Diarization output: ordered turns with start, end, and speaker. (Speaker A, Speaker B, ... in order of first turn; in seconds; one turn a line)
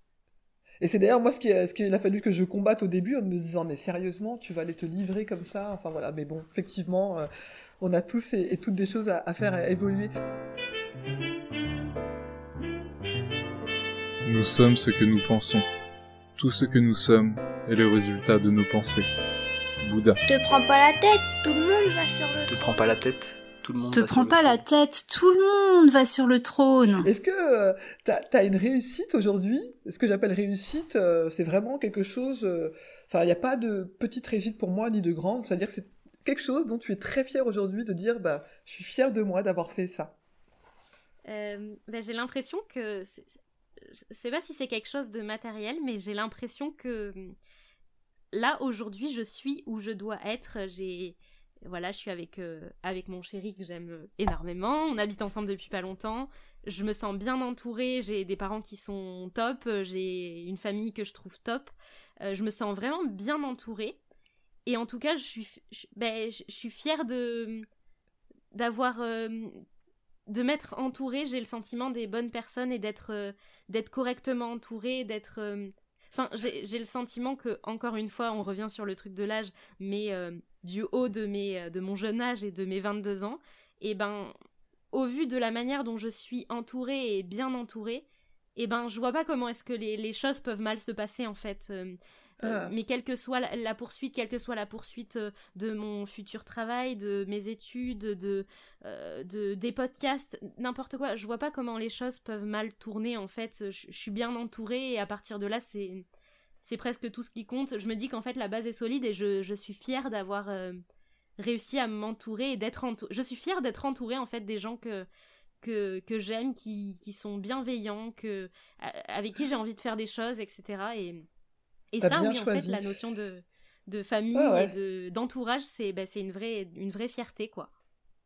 Speaker A: 0.8-7.3
Speaker A: 7.8-10.1
Speaker B: 14.2-15.6
Speaker B: 16.4-19.1
Speaker B: 19.8-20.2
Speaker C: 20.3-22.6
Speaker D: 22.5-24.6
Speaker E: 23.9-27.1
Speaker A: 27.0-40.1
Speaker F: 41.3-47.3
Speaker F: 48.3-64.0
Speaker F: 64.7-67.7
Speaker F: 68.5-69.6
Speaker F: 70.3-84.3
Speaker F: 84.9-106.0
Speaker A: 92.4-92.7
Speaker F: 106.6-110.8
Speaker F: 111.4-115.1
Speaker F: 115.6-121.3
Speaker F: 121.9-127.7
Speaker A: 122.0-122.8
Speaker A: 124.3-124.7